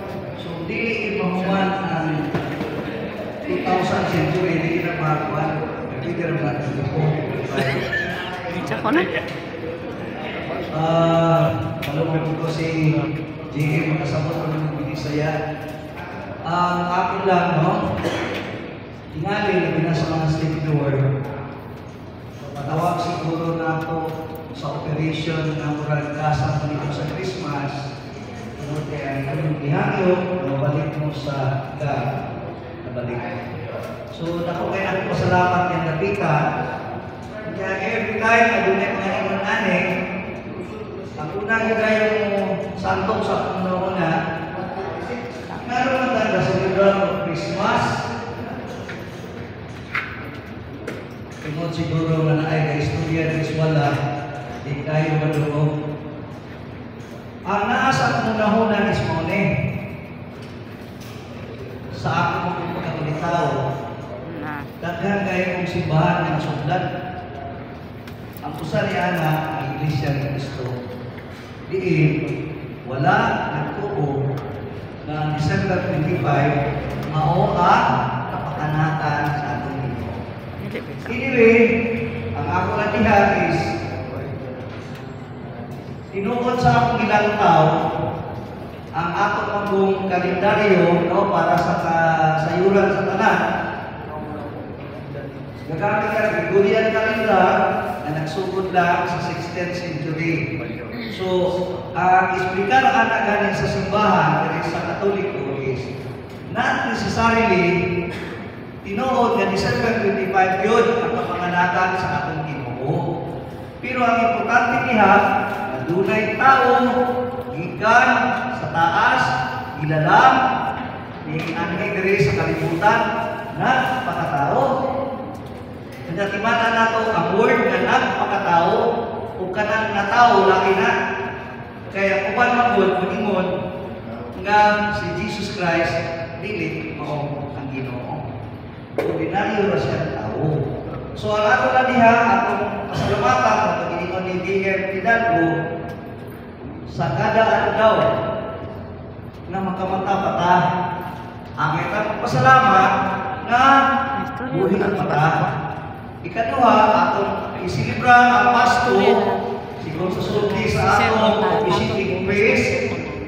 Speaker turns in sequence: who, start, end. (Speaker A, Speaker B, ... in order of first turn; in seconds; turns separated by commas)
Speaker A: 0.4-2.2, Speaker A: 3.5-7.8, Speaker B: 8.5-9.1, Speaker A: 10.7-12.8, Speaker A: 13.5-15.3, Speaker A: 16.5-17.7, Speaker A: 19.2-21.0, Speaker A: 22.6-24.0, Speaker A: 24.6-27.7, Speaker A: 28.6-32.0, Speaker A: 32.9-33.4, Speaker A: 34.1-36.4, Speaker A: 37.5-39.8, Speaker A: 41.2-44.1, Speaker A: 45.6-47.9, Speaker A: 51.4-53.9, Speaker A: 54.7-55.7, Speaker A: 57.5-59.5, Speaker A: 62.0-63.5, Speaker B: 64.3-64.7, Speaker A: 64.8-66.8, Speaker A: 68.5-70.7, Speaker A: 71.7-72.2, Speaker A: 72.9-74.1, Speaker A: 75.1-76.6, Speaker A: 77.1-80.2, Speaker B: 80.6-81.1, Speaker A: 81.1-81.6, Speaker A: 82.4-83.6, Speaker A: 86.1-87.7, Speaker A: 89.0-93.3, Speaker A: 95.7-97.5, Speaker A: 98.0-100.3, Speaker A: 101.1-101.3, Speaker A: 102.0-105.9, Speaker A: 106.5-107.7, Speaker A: 108.8-113.0, Speaker A: 113.8-116.8, Speaker A: 117.5-119.2, Speaker A: 119.8-120.4, Speaker A: 121.3-123.0, Speaker A: 123.6-124.7, Speaker A: 126.1-128.8, Speaker A: 129.4-130.9, Speaker A: 131.9-133.5, Speaker A: 134.4-138.2, Speaker A: 139.0-140.5, Speaker A: 141.2-145.5, Speaker A: 146.9-148.0, Speaker A: 149.5-150.6, Speaker A: 151.6-152.8, Speaker A: 153.4-153.7, Speaker B: 154.2-155.5, Speaker A: 154.5-155.3, Speaker A: 156.2-159.2, Speaker A: 159.8-162.7